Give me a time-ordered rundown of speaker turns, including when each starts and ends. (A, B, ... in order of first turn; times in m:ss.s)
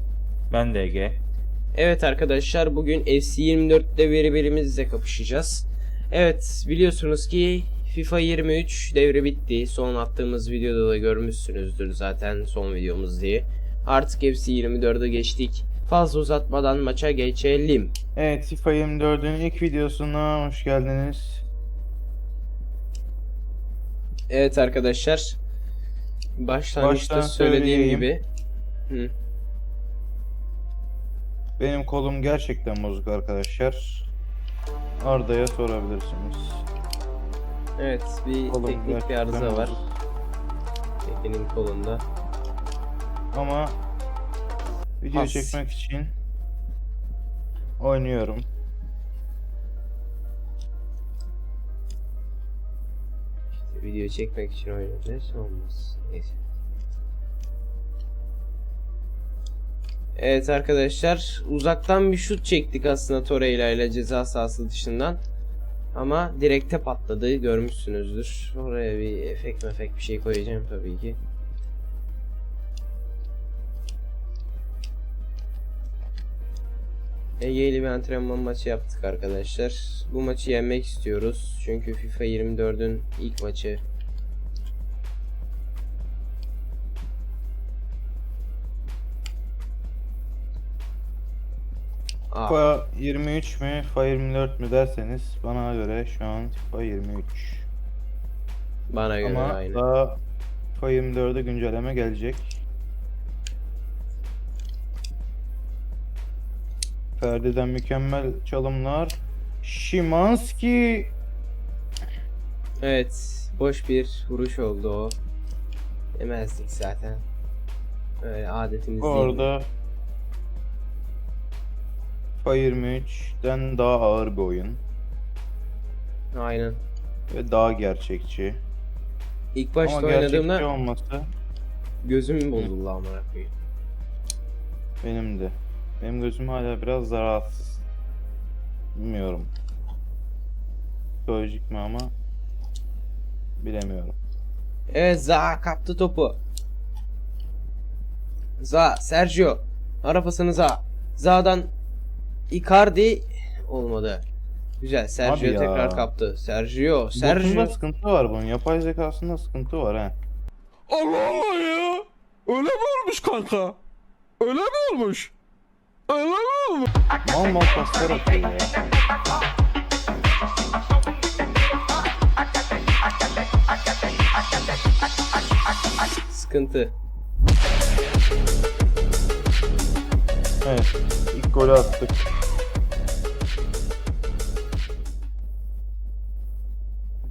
0:00.5-0:01.2 A
0:01.7-0:18.0 B
0:18.2-0:21.4 A
0:24.3-0:25.4 B
0:26.4-0:28.2 B
0:26.8-0:28.1 A
0:31.6-0:34.1 A
0:35.0-0:36.7 A
0:37.8-0:39.8 B
0:38.5-0:39.9 A
0:41.0-0:42.0 B
0:43.3-0:43.8 A
0:45.0-0:46.1 A
0:45.1-0:45.6 B
0:47.8-0:48.5 A
0:53.6-0:56.4 B
1:00.2-1:05.2 B
1:05.9-1:11.2 B
1:17.4-1:23.8 B
1:32.3-1:32.6 B
1:32.5-1:37.7 A
1:38.9-1:39.8 B
1:39.2-1:40.2 A
1:40.8-1:42.6 A
1:47.2-1:51.1 A
1:52.8-1:55.2 B
1:56.2-1:57.2 B
1:58.2-1:59.5 B
1:59.0-1:59.7 A
2:02.4-2:04.8 A
2:06.3-2:06.8 B
2:07.3-2:08.6 A
2:09.5-2:10.7 B
2:09.8-2:11.3 A
2:12.0-2:13.5 B
2:15.0-2:17.8 A
2:19.0-2:19.5 A
2:21.2-2:22.2 A
2:23.6-2:24.2 A
2:24.9-2:26.4 B
2:28.6-2:31.7 B
2:32.5-2:34.3 B
2:34.8-2:37.8 B
2:35.2-2:36.1 A
2:37.2-2:40.2 A
2:40.9-2:43.8 C
2:44.4-2:45.3 C
2:46.1-2:46.9 C
2:47.2-2:48.7 A
2:56.3-2:57.0 B
3:00.6-3:02.2 A